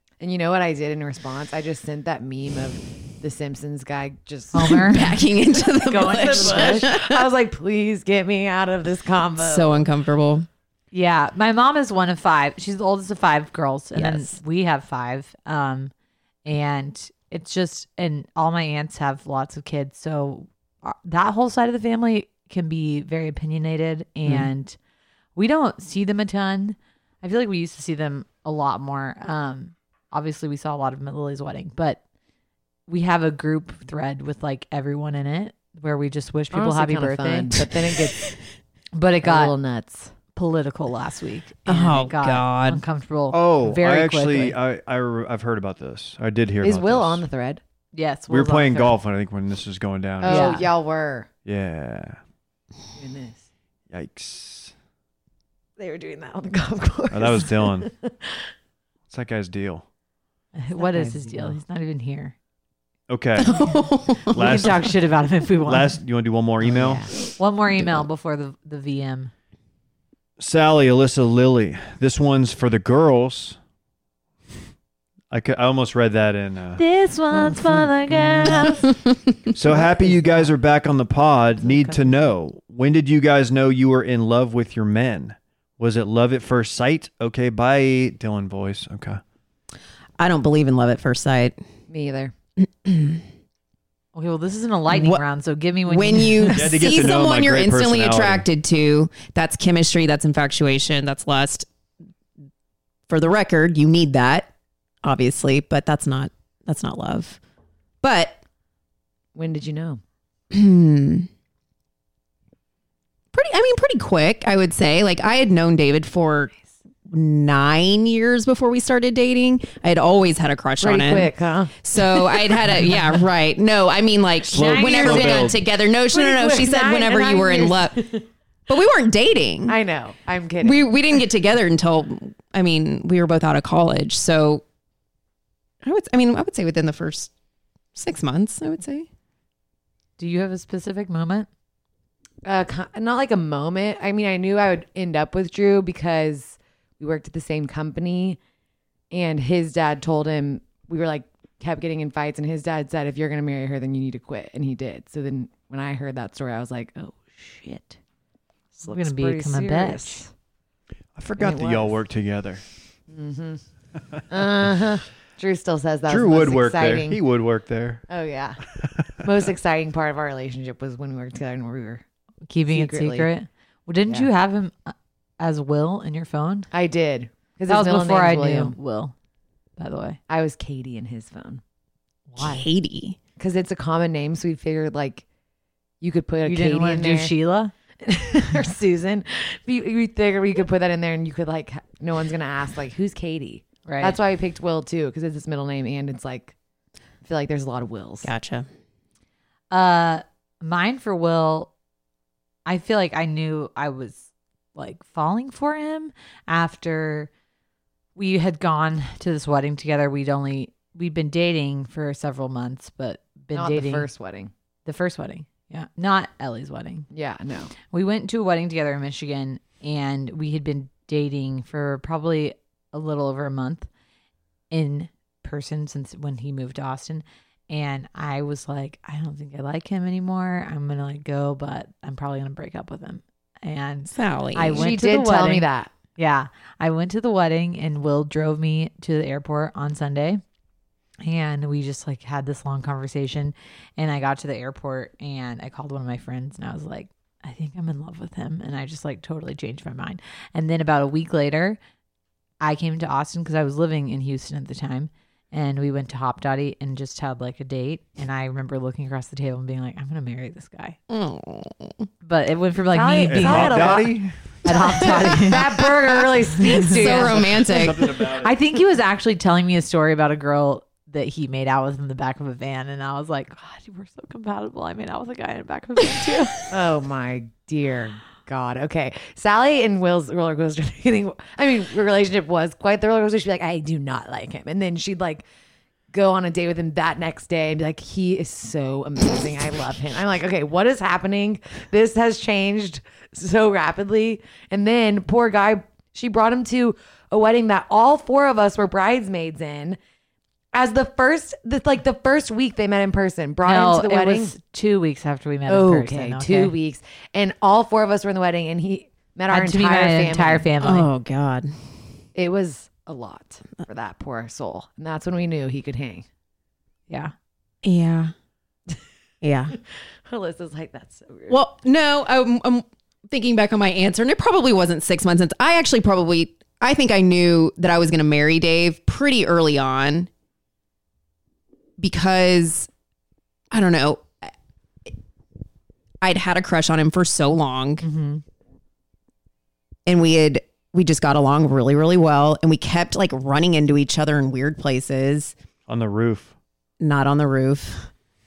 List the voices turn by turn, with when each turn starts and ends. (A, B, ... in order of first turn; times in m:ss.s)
0:00.2-0:05.2 A
0:04.5-0:05.2 B
0:04.7-0:07.2 C
0:05.8-0:06.9 B
0:06.0-0:09.9 A
0:09.4-0:10.5 C
0:10.9-0:15.9 B
0:14.0-0:14.4 C
0:16.4-0:24.8 B
0:25.4-0:32.0 B
0:32.9-0:37.6 B
0:36.5-0:38.3 A
0:38.9-0:39.5 B
0:39.2-0:40.1 A
0:40.3-0:44.6 B
0:41.7-0:42.8 C
0:43.3-0:47.2 D
0:46.6-0:47.6 A
0:47.9-0:49.0 B
0:48.3-0:50.6 D
0:50.2-0:51.3 A
0:50.2-0:50.6 B
0:51.5-0:52.2 D
0:53.0-0:53.4 A
0:53.9-0:54.7 D
0:55.8-0:58.5 A
0:57.1-0:57.9 D
0:59.1-0:59.8 D
1:00.5-1:02.4 B
1:00.8-1:01.6 A
1:03.1-1:03.6 D
1:03.4-1:04.5 C
1:04.3-1:05.0 D
1:04.3-1:06.0 B
1:05.7-1:07.1 D
1:06.6-1:07.1 A
1:07.4-1:09.3 B
1:10.4-1:13.6 D
1:15.3-1:16.8 D
1:16.8-1:19.0 B
1:19.5-1:29.2 D
1:19.7-1:20.5 B
1:21.6-1:22.1 B
1:30.2-1:31.6 C
1:31.9-1:32.3 A
1:32.8-1:33.2 C
1:34.1-1:36.8 B
1:34.9-1:35.2 C
1:35.9-1:41.7 C
1:36.5-1:38.5 D
1:43.1-1:44.5 C
1:45.0-1:47.4 C
1:48.0-1:48.4 C
1:49.4-1:50.0 A
1:50.5-1:51.3 C
1:53.3-1:56.5 C
1:57.1-2:08.1 C
2:00.8-2:02.6 A
2:04.5-2:05.6 D
2:04.5-2:05.5 B
2:06.1-2:08.2 A
2:08.7-2:09.8 C
2:09.7-2:10.9 A
2:10.6-2:14.6 C
2:15.8-2:17.3 C
2:18.0-2:19.1 C
2:20.2-2:21.5 B
2:22.4-2:28.4 A
2:29.1-2:38.0 A
2:38.8-2:40.3 A
2:38.9-2:40.2 B
2:41.2-2:42.6 D
2:41.4-2:42.0 A
2:43.1-2:43.6 A
2:44.3-2:47.2 A
2:46.1-2:48.0 D
2:48.1-2:48.6 A
2:49.2-2:52.0 A
2:52.5-2:56.7 B
2:52.7-2:53.3 A
2:56.7-2:58.8 A
2:57.7-2:59.1 B
2:59.8-3:00.2 B
3:00.3-3:01.6 A
3:02.3-3:02.7 B
3:02.4-3:03.2 C
3:03.4-3:05.2 A
3:06.0-3:07.3 A
3:06.4-3:07.7 B
3:08.0-3:16.6 A
3:13.9-3:14.2 B
3:17.2-3:18.3 A
3:18.2-3:18.7 C
3:19.7-3:21.7 B
3:22.7-3:27.3 B
3:28.2-3:34.1 B
3:33.5-3:34.5 A
3:34.8-3:37.1 B
3:37.1-3:37.7 A
3:37.9-3:43.9 B
3:44.7-4:00.4 B
3:54.1-3:54.9 C
3:54.7-3:55.9 A
4:01.2-4:11.8 B
4:12.6-4:21.0 B
4:21.1-4:22.1 C
4:22.2-4:24.0 B
4:22.9-4:24.1 A
4:23.3-4:24.3 D
4:24.6-4:27.7 A
4:24.7-4:25.7 B
4:25.4-4:26.1 C
4:26.6-4:28.2 C
4:26.8-4:27.2 B
4:27.6-4:28.6 D
4:28.4-4:36.6 B
4:36.7-4:45.5 A
4:46.1-5:00.0 A
5:00.7-5:04.5 A
5:03.6-5:06.7 B
5:05.7-5:10.7 A
5:09.5-5:11.1 B
5:10.8-5:11.8 C
5:12.4-5:16.2 A
5:17.8-5:18.3 C
5:19.4-5:19.8 C
5:20.3-5:21.6 A
5:21.5-5:30.3 C
5:32.0-5:32.9 C
5:33.7-5:34.5 C
5:36.2-5:38.0 C
5:38.0-5:38.4 B
5:40.1-5:45.5 C
5:45.9-5:46.6 D
5:47.0-5:48.1 C